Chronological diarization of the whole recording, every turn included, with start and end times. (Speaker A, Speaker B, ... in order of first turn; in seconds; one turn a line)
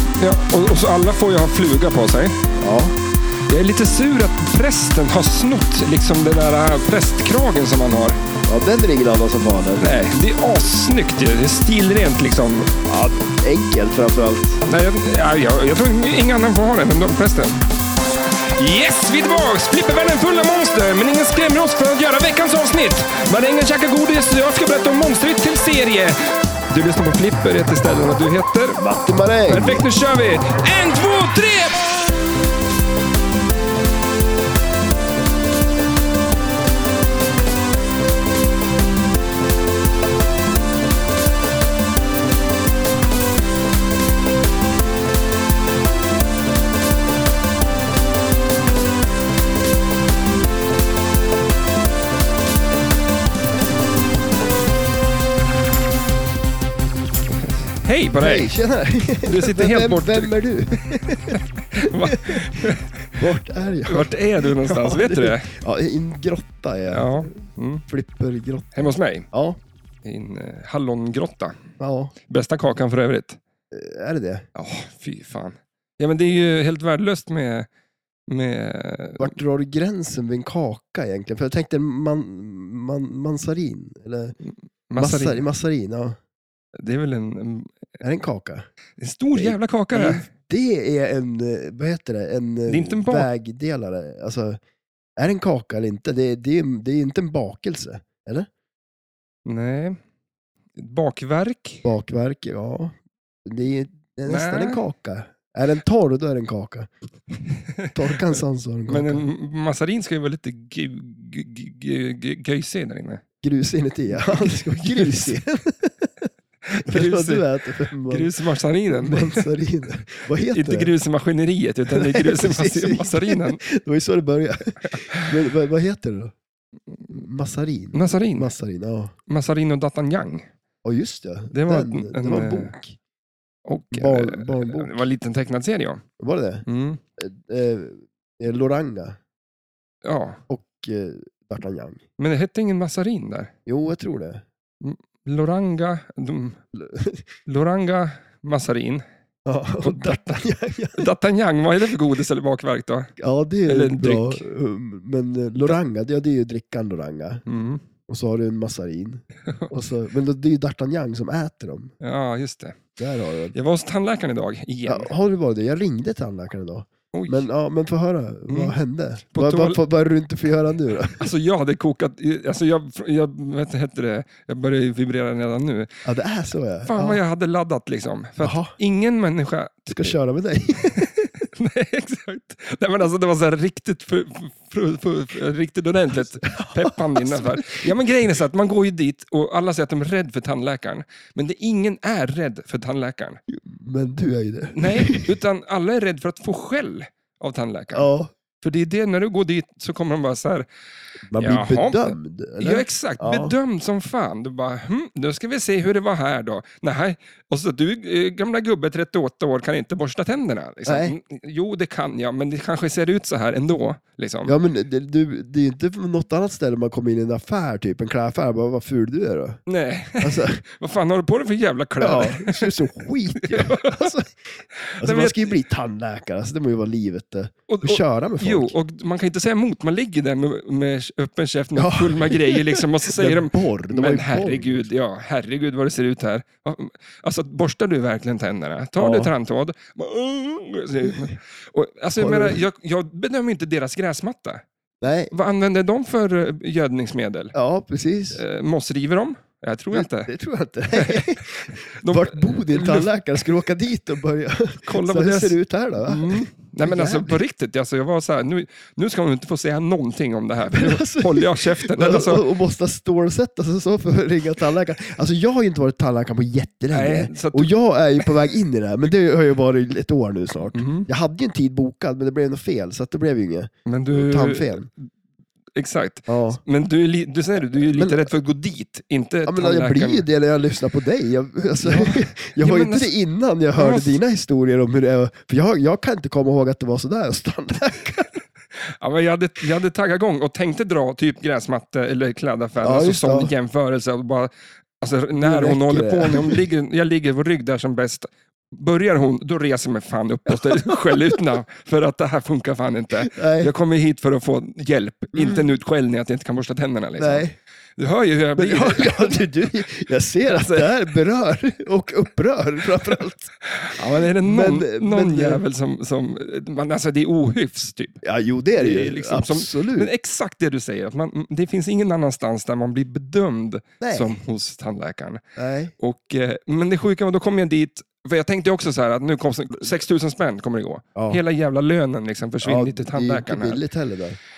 Speaker A: 0.2-2.4
Speaker B: 2.6-2.9
Speaker A: 3.5-8.2
Speaker B: 8.5-9.9
Speaker A: 9.8-12.7
Speaker B: 12.8-14.6
Speaker A: 14.7-17.6
Speaker A: 18.6-28.8
Speaker B: 28.8-29.9
Speaker A: 29.5-31.9
Speaker A: 57.4-58.5
Speaker B: 58.2-67.3
Speaker A: 59.2-60.3
Speaker A: 61.7-63.3
Speaker A: 63.9-65.5
Speaker A: 66.9-67.8
Speaker B: 67.9-69.6
Speaker A: 68.7-69.3
Speaker A: 70.0-71.6
Speaker B: 71.8-72.1
Speaker A: 72.3-73.4
Speaker B: 73.7-74.5
Speaker A: 74.5-77.7
Speaker A: 78.3-79.3
Speaker B: 79.2-84.3
Speaker A: 84.4-85.4
Speaker B: 85.0-86.2
Speaker A: 86.8-87.8
Speaker B: 88.0-88.7
Speaker A: 89.0-90.3
Speaker B: 89.3-94.6
Speaker A: 92.7-93.3
Speaker B: 95.2-98.5
Speaker A: 99.5-100.0
Speaker A: 100.8-101.8
Speaker B: 101.8-106.9
Speaker A: 104.2-104.8
Speaker B: 107.9-109.2
Speaker A: 108.9-113.2
Speaker B: 113.4-116.3
Speaker A: 114.2-115.3
Speaker A: 116.7-117.4
Speaker B: 116.8-118.3
Speaker A: 118.1-119.5
Speaker B: 118.9-120.9
Speaker A: 120.5-123.6
Speaker B: 121.9-126.3
Speaker A: 124.8-125.3
Speaker B: 127.1-129.1
Speaker A: 127.9-128.5
Speaker A: 129.3-130.5
Speaker B: 130.8-132.9
Speaker A: 131.5-132.8
Speaker A: 133.7-136.0
Speaker B: 133.9-135.0
Speaker B: 136.2-136.6
Speaker A: 136.7-137.0
Speaker B: 137.2-139.2
Speaker A: 140.0-140.4
Speaker B: 140.5-142.0
Speaker A: 142.2-143.5
Speaker B: 143.7-144.4
Speaker A: 144.8-146.6
Speaker B: 146.8-147.2
Speaker A: 147.4-149.0
Speaker B: 149.4-151.1
Speaker A: 149.8-153.1
Speaker B: 153.2-157.4
Speaker A: 153.7-154.4
Speaker A: 157.4-157.8
Speaker B: 158.1-161.9
Speaker A: 162.0-162.8
Speaker B: 163.0-163.5
Speaker A: 163.5-165.1
Speaker B: 164.8-171.2
Speaker A: 167.1-167.4
Speaker A: 168.5-168.8
Speaker A: 169.3-169.8
Speaker A: 171.2-176.0
Speaker B: 176.0-177.2
Speaker A: 176.8-180.1
Speaker B: 178.4-178.7
Speaker B: 179.9-181.4
Speaker A: 181.0-193.4
Speaker B: 186.4-187.9
Speaker B: 193.5-195.3
Speaker A: 194.7-198.1
Speaker B: 197.9-198.3
Speaker A: 198.6-200.7
Speaker B: 201.3-203.5
Speaker A: 201.3-214.6
Speaker B: 210.8-211.1
Speaker B: 214.4-219.6
Speaker A: 219.7-222.7
Speaker B: 220.2-220.6
Speaker B: 222.0-224.3
Speaker A: 223.4-224.1
Speaker A: 224.8-225.6
Speaker B: 225.0-228.7
Speaker A: 227.7-244.6
Speaker B: 231.8-234.9
Speaker B: 239.0-239.3
Speaker B: 242.2-242.6
Speaker B: 245.0-245.3
Speaker A: 245.3-247.5
Speaker B: 247.5-248.4
Speaker A: 248.3-250.3
Speaker B: 249.9-257.4
Speaker A: 250.9-251.4
Speaker A: 252.0-253.1
Speaker A: 254.8-262.4
Speaker B: 260.7-274.9
Speaker A: 266.9-268.3
Speaker A: 270.7-271.1
Speaker A: 273.9-275.1
Speaker A: 275.8-280.2
Speaker B: 276.3-276.6
Speaker B: 277.9-278.3
Speaker B: 279.4-288.3
Speaker A: 281.8-283.1
Speaker A: 283.8-284.2
Speaker A: 288.8-309.4
Speaker B: 292.8-293.5
Speaker B: 295.4-296.6
Speaker B: 300.5-301.1
Speaker B: 303.3-303.7
Speaker B: 305.3-305.6
Speaker B: 307.2-307.5
Speaker B: 308.6-313.5
Speaker A: 310.5-310.9
Speaker A: 313.6-318.2
Speaker B: 314.4-315.6
Speaker B: 318.2-320.1
Speaker A: 318.8-325.4
Speaker B: 324.0-324.4
Speaker B: 325.6-325.9
Speaker A: 326.0-333.8
Speaker B: 331.1-331.4
Speaker B: 332.6-334.4